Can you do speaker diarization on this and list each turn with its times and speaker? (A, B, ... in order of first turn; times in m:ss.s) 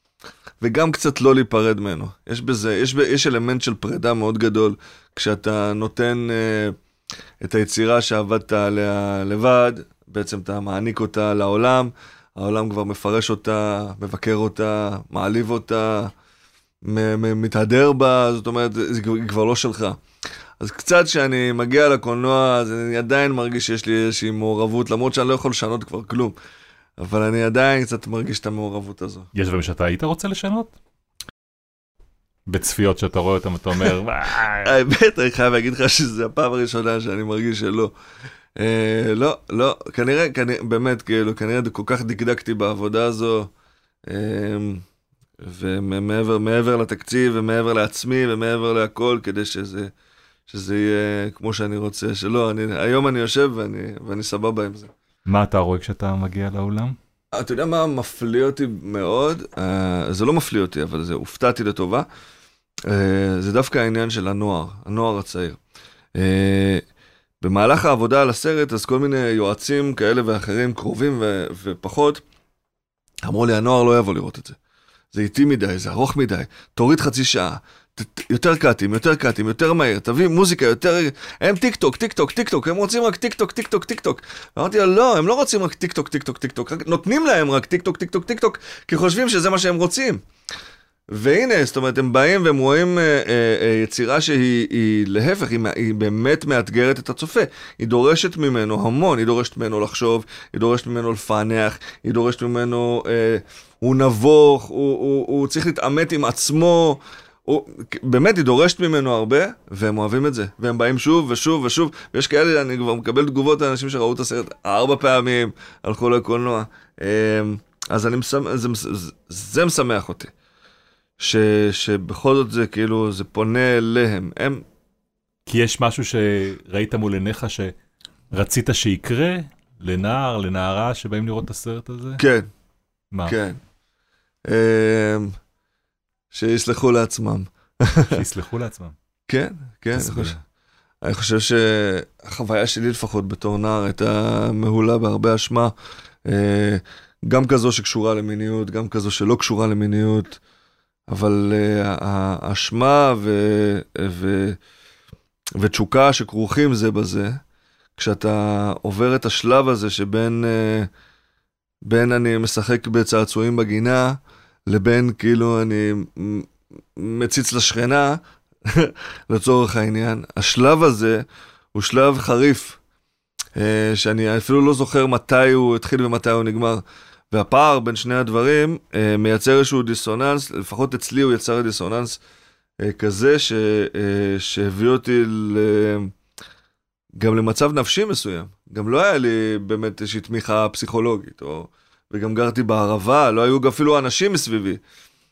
0:00.6-0:06.7 A
0:07.4-0:16.1 A
0:16.8-0:20.0 A
0:20.6-0:26.3 A
0:27.0-0:29.3 A
0:29.3-0:30.7 B
0:32.5-0:34.7 B
0:34.6-0:37.9 A
0:38.6-0:43.5 A
0:44.1-0:44.8 A
0:45.4-0:49.9 A
0:50.5-0:54.9 A
0:55.2-0:57.0 B
0:57.3-1:02.1 A
1:02.8-1:05.6 A
1:06.2-1:06.8 A
1:07.4-1:12.2 A
1:13.2-1:14.6 A
1:15.1-1:30.2 A
1:31.1-2:00.3 A
2:01.2-2:04.6 A
2:05.5-2:07.7 B
2:08.3-2:12.2 B
2:12.2-2:12.5 A
2:13.2-2:13.6 A
2:14.5-2:15.3 A
2:16.3-2:18.2 A
2:18.1-2:18.9 B
2:19.3-2:20.4 A
2:19.9-2:20.4 B
2:21.0-2:25.7 A
2:26.2-2:30.4 A
2:31.1-2:34.6 A
2:35.6-2:37.4 A
2:38.0-2:40.9 A
2:41.8-2:52.8 A
2:53.6-3:02.2 A
3:02.8-3:06.1 A
3:07.2-3:14.8 A